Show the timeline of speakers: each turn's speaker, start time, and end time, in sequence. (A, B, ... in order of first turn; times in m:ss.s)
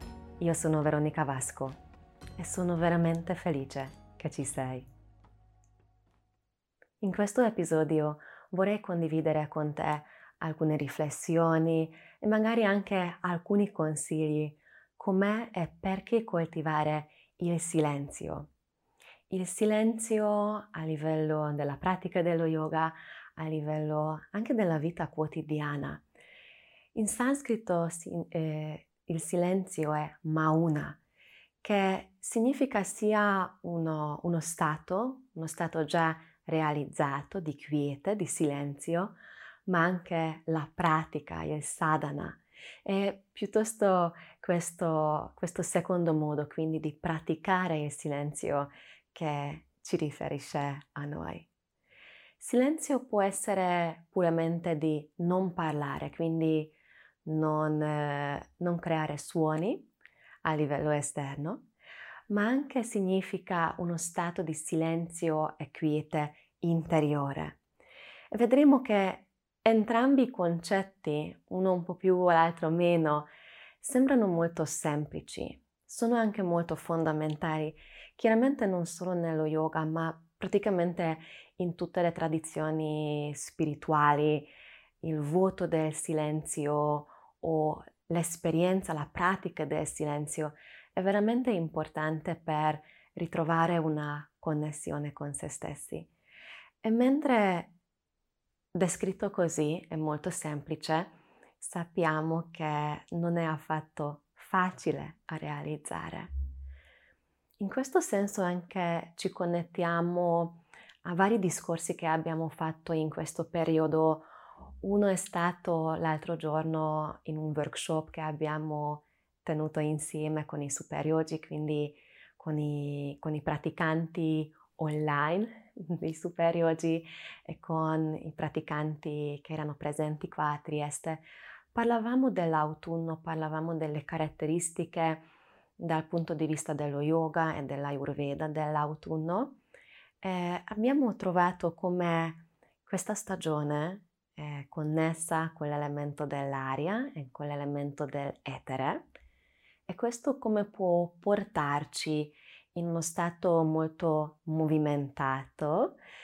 0:00.4-0:01.8 A
0:02.4-0:04.9 A
0:07.0-0:18.5 A
0:19.3-0:26.0 A
0:26.9-0:31.0 A
0:31.6-0:39.2 A
0:39.7-0:51.5 A
0:52.4-0:56.7 A
0:57.2-0:59.9 A
1:00.4-1:01.7 A
1:02.3-1:07.6 A
1:08.3-1:13.3 A
1:13.8-1:24.5 A
1:25.0-1:36.1 A
1:36.8-1:37.7 A
1:38.7-1:46.3 A
1:47.6-1:54.3 A
1:54.8-2:15.3 A
2:15.8-2:19.6 A
2:20.2-2:29.0 A
2:29.9-2:36.0 A